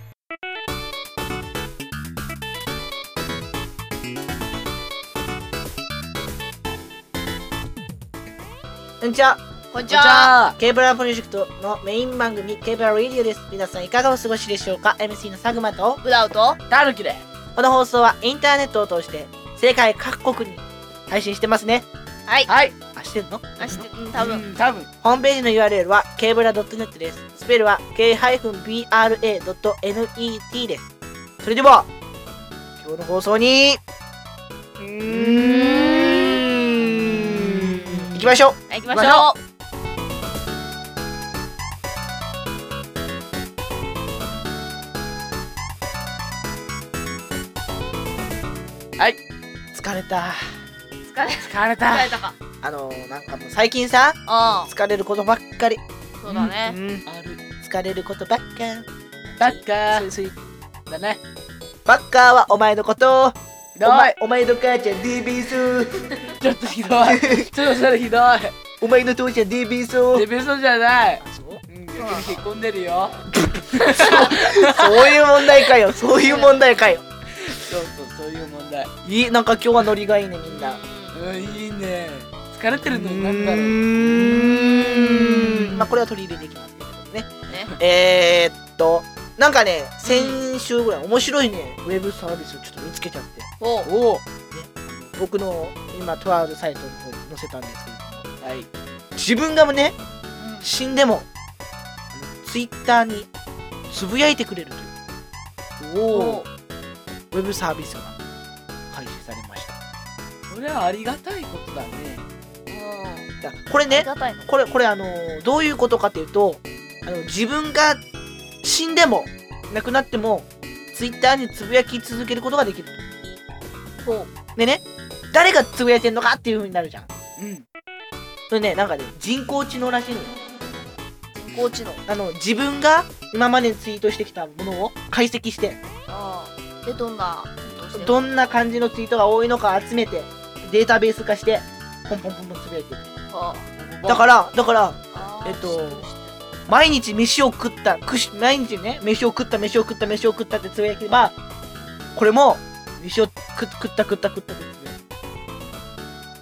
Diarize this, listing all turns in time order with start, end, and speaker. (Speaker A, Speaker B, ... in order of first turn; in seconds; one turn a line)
Speaker A: 9.0-9.4
Speaker B: 9.7-10.3
Speaker C: 9.8-10.6
Speaker A: 10.6-16.0
Speaker B: 16.0-16.6
Speaker C: 16.7-17.2
Speaker A: 17.5-21.9
Speaker C: 22.5-22.7
Speaker A: 22.9-23.8
Speaker B: 23.6-24.4
Speaker C: 24.1-24.9
Speaker A: 25.0-30.8
Speaker A: 31.4-31.9
Speaker A: 32.8-33.8
Speaker A: 34.8-38.6
Speaker B: 35.3-36.4
Speaker B: 38.7-39.4
Speaker C: 38.9-39.3
Speaker A: 49.7-50.5
Speaker B: 51.1-52.3
Speaker C: 51.4-52.2
Speaker A: 52.6-55.8
Speaker B: 54.3-54.7
Speaker B: 56.2-56.8
Speaker A: 56.3-57.0
Speaker C: 57.1-57.4
Speaker A: 57.6-60.4
Speaker C: 59.4-60.1
Speaker C: 60.9-61.2
Speaker A: 61.9-66.1
Speaker C: 63.8-64.2
Speaker C: 66.3-68.5
Speaker A: 67.0-67.5
Speaker A: 68.8-70.3
Speaker C: 70.1-73.2
Speaker A: 71.2-71.6
Speaker B: 72.0-72.3
Speaker C: 73.7-75.2
Speaker A: 73.9-77.0
Speaker B: 74.0-74.3
Speaker B: 76.2-76.6
Speaker C: 77.5-78.9
Speaker A: 79.0-80.8
Speaker B: 80.5-81.2
Speaker C: 81.1-85.8
Speaker A: 82.9-93.5
Speaker B: 87.5-87.8
Speaker B: 90.0-90.4
Speaker B: 93.6-93.9
Speaker C: 93.8-94.2
Speaker A: 94.0-98.2
Speaker C: 98.4-98.7
Speaker A: 99.2-99.9
Speaker B: 100.4-100.7
Speaker A: 100.6-101.3
Speaker A: 102.1-103.3
Speaker A: 103.9-104.9
Speaker A: 105.8-106.4
Speaker B: 106.1-106.5
Speaker A: 107.3-108.2
Speaker A: 108.9-109.8
Speaker C: 110.5-112.2
Speaker B: 112.7-113.3
Speaker A: 113.4-118.0
Speaker B: 113.8-114.5
Speaker A: 118.6-123.0
Speaker B: 124.0-124.3
Speaker A: 124.5-127.1
Speaker C: 127.4-127.7
Speaker A: 128.5-130.3
Speaker B: 131.3-132.0
Speaker A: 132.1-135.8
Speaker B: 136.1-138.3
Speaker A: 137.9-143.1
Speaker B: 143.3-143.7
Speaker C: 143.8-144.2
Speaker A: 144.0-146.0
Speaker B: 145.1-146.3
Speaker A: 146.7-151.3
Speaker A: 152.1-155.0